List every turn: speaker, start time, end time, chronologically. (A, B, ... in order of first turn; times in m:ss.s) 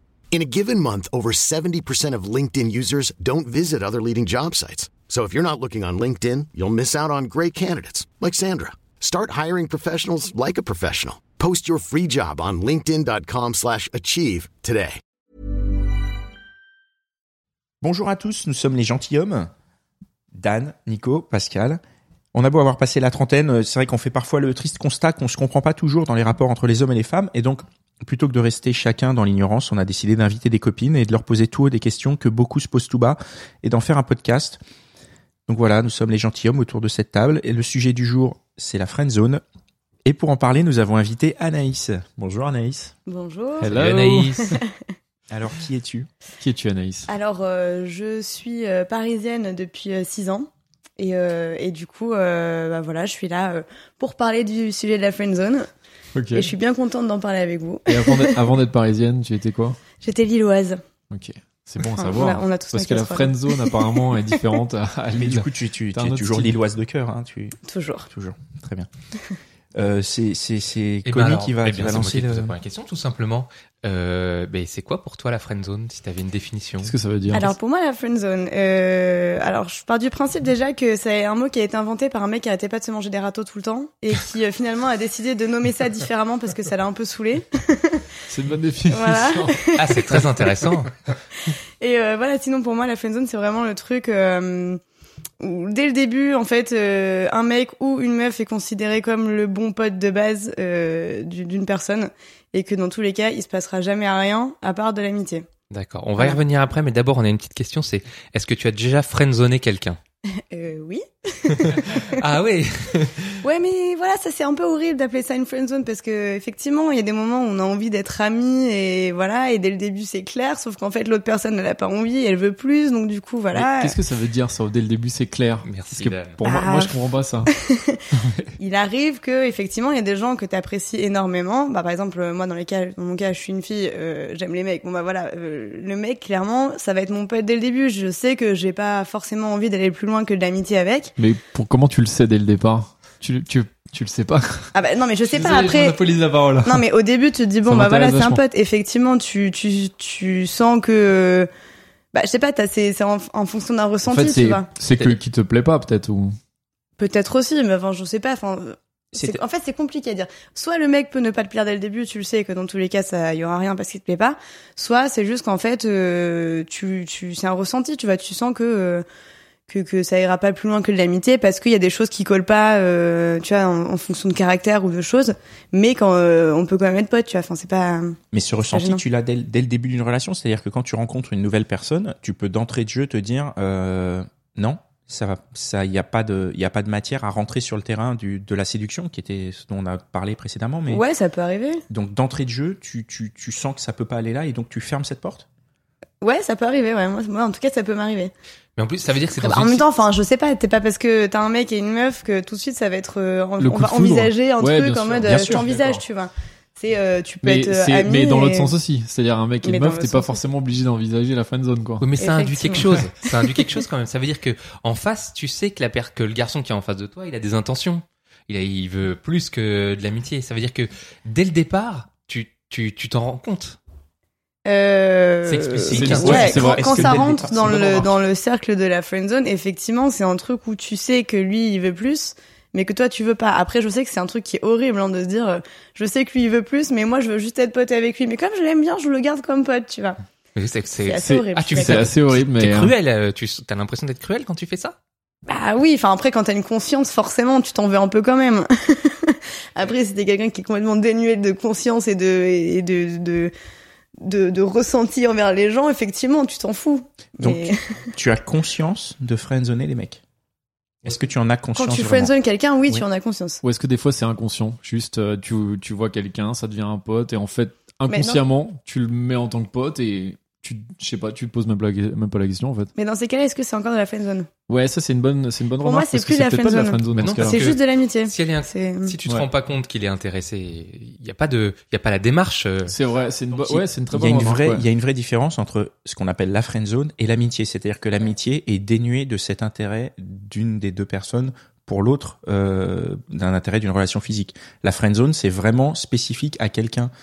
0:00.3-0:15.0 A
0:17.8-0:19.5 B
0:20.3-0:21.8 B
0:22.3-0:34.6 B
0:35.5-0:39.4 B
0:40.0-0:42.9 B
0:43.1-0:43.8 C
0:43.6-0:44.6 D
0:43.7-0:44.5 E
0:44.4-0:44.7 C
0:45.3-0:46.1 B
0:46.4-0:47.1 D
0:47.1-0:55.7 C
0:56.2-0:56.5 D
0:56.4-0:58.4 C
0:57.9-0:59.8 D
1:00.0-1:00.8 C
1:01.1-1:06.6 D
1:02.0-1:04.2 C
1:05.2-1:07.6 B
1:07.7-1:08.1 C
1:08.1-1:08.9 B
1:09.8-1:12.6 B
1:11.1-1:16.9 E
1:16.8-1:17.5 D
1:17.3-1:28.1 C
1:28.3-1:29.6 D
1:28.9-1:30.2 C
1:29.8-1:30.9 E
1:31.8-1:34.8 C
1:35.4-1:45.5 C
1:45.7-1:50.0 E
1:50.5-1:52.1 C
1:51.6-1:53.4 E
1:53.4-2:04.0 C
2:03.5-2:07.5 D
2:05.6-2:06.4 E
2:06.4-2:07.0 C
2:07.6-2:08.0 C
2:08.1-2:08.5 D
2:08.6-2:21.1 C
2:21.2-2:24.7 D
2:24.7-2:26.0 C
2:25.3-2:26.8 D
2:26.6-2:31.5 C
2:27.7-2:28.4 D
2:32.1-2:34.7 C
2:34.1-2:36.4 D
2:37.0-2:49.0 C
2:39.1-2:39.4 B
2:49.7-2:59.0 C
2:58.3-3:11.0 B
3:10.9-3:11.8 C
3:11.9-3:15.5 B
3:16.2-3:18.3 C
3:18.8-3:19.8 E
3:19.4-3:28.7 C
3:23.6-3:25.7 D
3:25.2-3:26.0 B
3:27.4-3:32.1 D
3:29.6-3:30.4 C
3:32.0-3:43.8 E
3:32.2-3:33.7 C
3:44.7-4:00.2 C
3:45.6-3:48.2 B
3:45.9-3:47.5 D
3:46.0-3:46.4 E
4:00.6-4:05.0 E
4:01.0-4:02.1 C
4:01.2-4:02.9 D
4:05.5-4:13.5 C
4:14.2-4:17.9 C
4:17.4-4:20.2 B
4:21.0-4:22.3 B
4:21.8-4:23.6 C
4:23.6-4:32.9 D
4:28.1-4:28.4 C
4:33.0-4:34.5 C
4:34.7-4:37.6 D
4:35.8-4:39.2 C
4:37.2-4:42.9 E
4:42.9-4:44.8 D
4:43.5-4:57.1 B